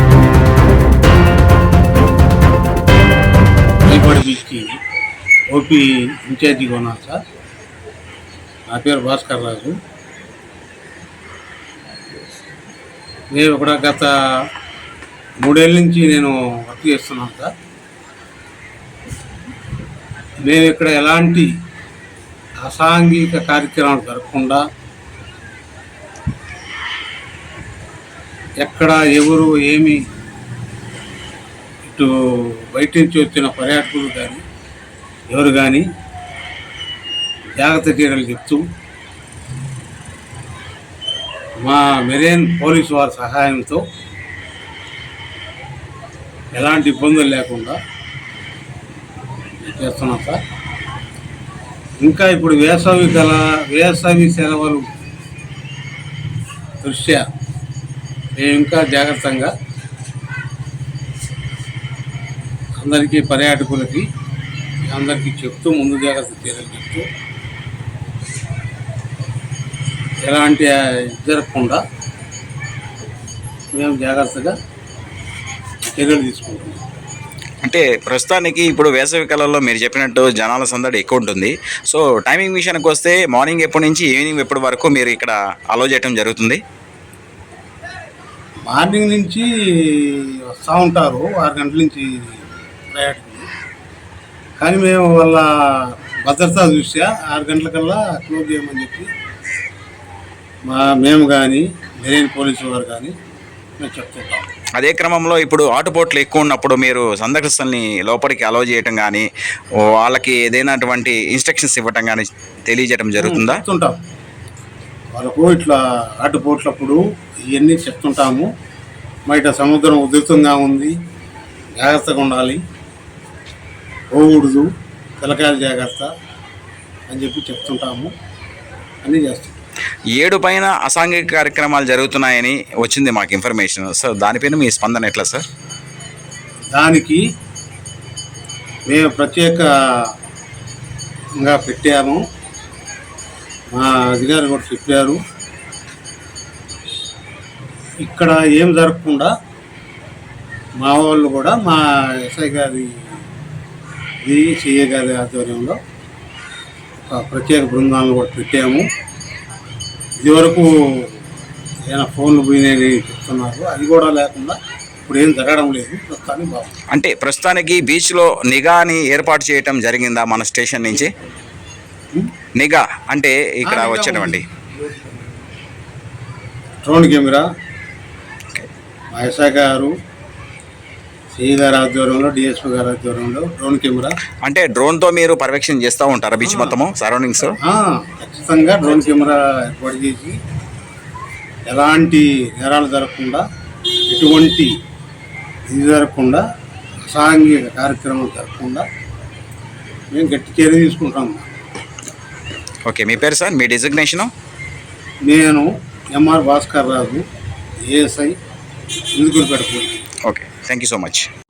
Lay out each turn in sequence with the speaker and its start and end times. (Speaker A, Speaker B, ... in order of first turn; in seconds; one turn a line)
Speaker A: 3.9-4.8
Speaker A: 5.5-7.2
Speaker A: 8.7-9.8
Speaker A: 13.3-14.1
Speaker A: 15.4-17.5
Speaker A: 20.5-21.5
Speaker A: 22.6-24.6
Speaker A: 28.6-30.0
Speaker A: 31.9-34.4
Speaker A: 35.3-35.8
Speaker A: 37.6-38.6
Speaker A: 41.6-43.8
Speaker A: 46.5-47.8
Speaker A: 49.6-50.4
Speaker A: 52.0-54.9
Speaker A: 56.8-57.2
Speaker A: 58.4-59.5
Speaker A: 62.8-64.1
Speaker A: 64.9-67.1
Speaker A: 70.2-71.8
Speaker A: 73.7-74.5
Speaker A: 75.9-76.8
Speaker B: 77.6-86.6
Speaker A: 88.7-93.5
Speaker A: 94.6-99.1
Speaker A: 100.7-103.1
Speaker A: 103.8-104.5
Speaker B: 104.8-109.3
Speaker B: 110.0-113.6
Speaker A: 113.2-114.0
Speaker A: 115.1-118.5
Speaker A: 119.3-120.9
Speaker A: 121.8-122.6
Speaker A: 124.1-124.7
Speaker A: 125.2-126.1
Speaker A: 127.1-128.1
Speaker A: 129.0-129.5
Speaker B: 130.2-135.5
Speaker A: 136.7-137.2
Speaker A: 138.9-139.7
Speaker A: 141.4-142.2
Speaker A: 143.7-145.2
Speaker A: 148.0-149.3
Speaker A: 150.8-153.0
Speaker A: 154.2-155.8
Speaker A: 157.0-158.8
Speaker A: 160.2-161.1
Speaker A: 161.9-164.6
Speaker A: 165.1-166.8
Speaker B: 166.9-171.1
Speaker B: 172.6-174.4
Speaker A: 173.7-174.4
Speaker A: 176.8-177.4
Speaker A: 179.1-179.9
Speaker A: 181.4-184.2
Speaker B: 184.4-187.6
Speaker A: 186.5-186.8
Speaker A: 187.6-190.4
Speaker A: 191.7-193.4
Speaker A: 194.1-194.7
Speaker A: 195.7-196.4
Speaker A: 197.1-198.8
Speaker A: 200.1-201.5
Speaker B: 202.9-204.3
Speaker A: 205.2-207.2
Speaker A: 207.9-208.3
Speaker A: 209.2-210.0
Speaker B: 210.3-211.3